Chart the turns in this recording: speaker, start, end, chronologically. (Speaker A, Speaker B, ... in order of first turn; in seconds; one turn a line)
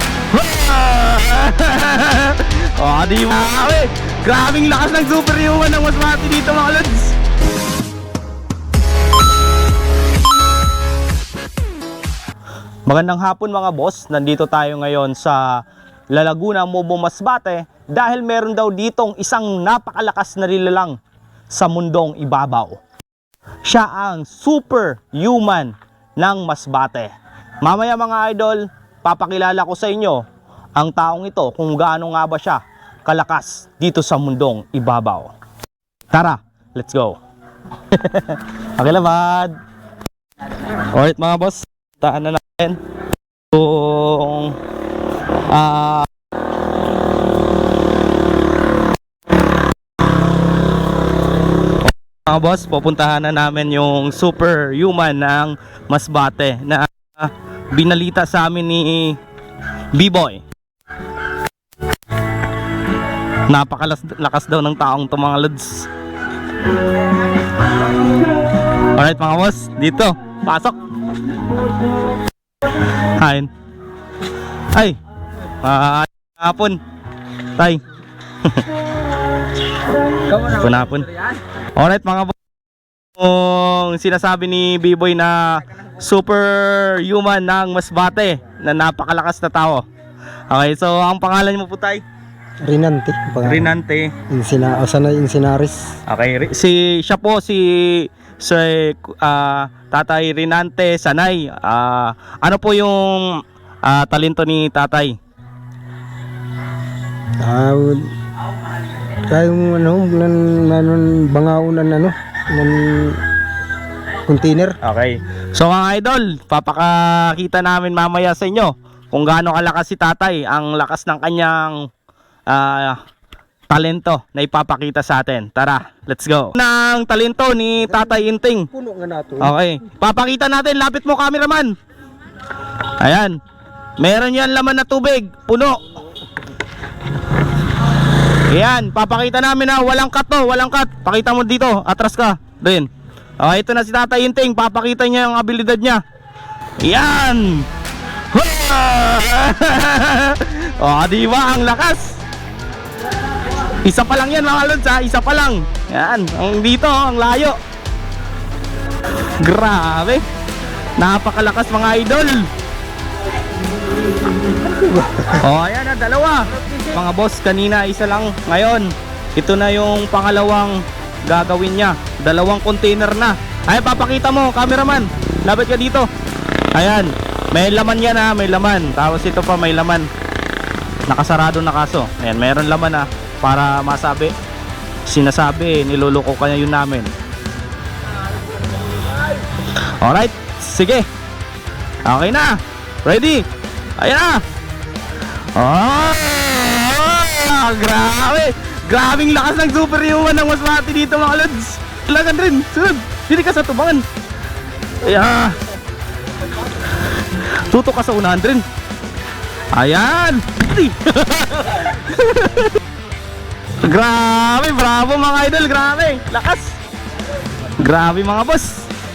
Speaker A: 0.3-7.2
Speaker A: 12.9-15.6
Speaker A: 16.1-20.9
Speaker A: 21.5-22.8
Speaker A: 23.6-27.1
Speaker A: 27.6-30.2
Speaker A: 30.8-35.3
Speaker A: 36.1-37.2
Speaker A: 37.9-39.5
Speaker A: 40.9-42.8
Speaker A: 43.5-44.6
Speaker A: 45.5-46.1
Speaker A: 51.8-59.2
Speaker A: 59.9-60.4
Speaker A: 63.5-65.9
Speaker A: 68.8-70.8
Speaker A: 72.8-73.5
Speaker A: 74.7-75.0
Speaker A: 75.6-76.8
Speaker A: 80.3-82.3
Speaker A: 83.2-89.8
Speaker A: 90.5-92.0
Speaker B: 92.6-93.7
Speaker A: 93.4-94.1
Speaker B: 94.3-95.9
Speaker A: 96.1-105.2
Speaker B: 107.4-108.1
Speaker B: 109.2-113.2
Speaker B: 114.2-114.8
Speaker A: 114.8-121.8
Speaker A: 122.5-123.0
Speaker A: 123.7-128.7
Speaker B: 127.8-129.5
Speaker A: 129.4-131.7
Speaker A: 133.0-133.3
Speaker A: 134.0-135.8
Speaker A: 138.5-142.9
Speaker A: 143.4-146.0
Speaker A: 146.8-147.7
Speaker A: 148.3-152.2
Speaker A: 153.8-157.6
Speaker A: 159.4-160.2
Speaker A: 161.0-162.5
Speaker B: 164.7-165.4
Speaker A: 165.3-176.1
Speaker A: 176.7-180.1
Speaker A: 181.1-184.3
Speaker A: 185.1-187.1
Speaker A: 189.8-191.0
Speaker A: 192.0-193.4
Speaker A: 194.0-194.4
Speaker A: 195.6-204.0
Speaker A: 205.0-205.6
Speaker A: 207.4-208.6
Speaker A: 209.7-212.7
Speaker A: 213.8-216.7
Speaker A: 217.8-218.9